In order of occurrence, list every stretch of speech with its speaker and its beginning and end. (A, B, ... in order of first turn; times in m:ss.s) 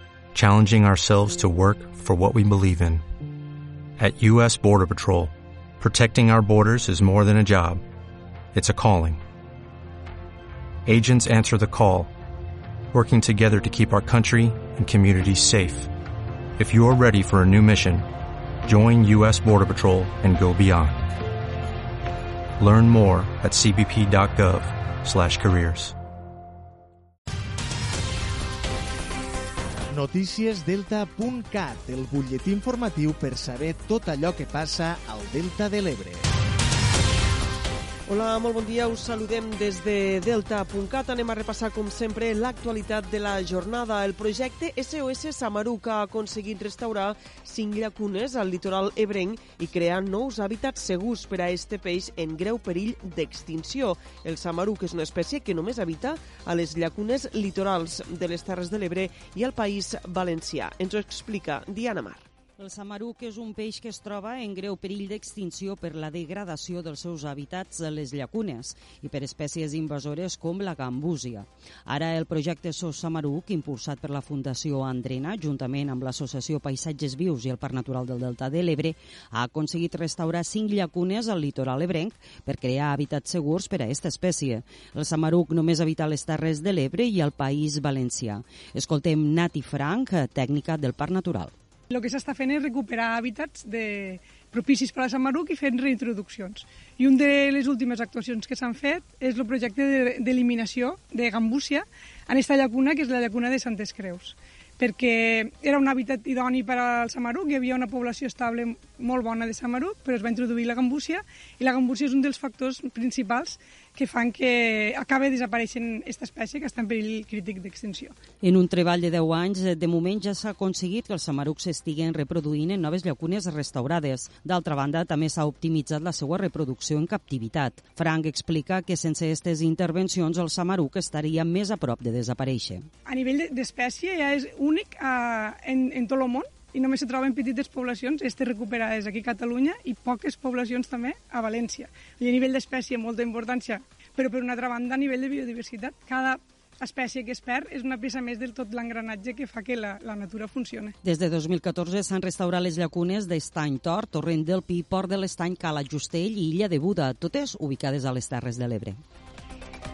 0:00.3-0:03.0 A
0:04.0-0:07.8 A
0:08.5-0:09.2 A
0:10.8-0:12.1 A
0:12.9-0:15.9 A
0:16.6-0:18.0 A
0:18.6-0:21.1 A
0:22.6-0:25.9 A
0:29.9-0:36.3 B
0:38.1-1:02.2 C
1:02.6-1:31.5 D
1:31.9-1:58.2 E
1:58.4-2:12.8 D
2:13.0-2:30.9 E
2:31.0-2:39.0 D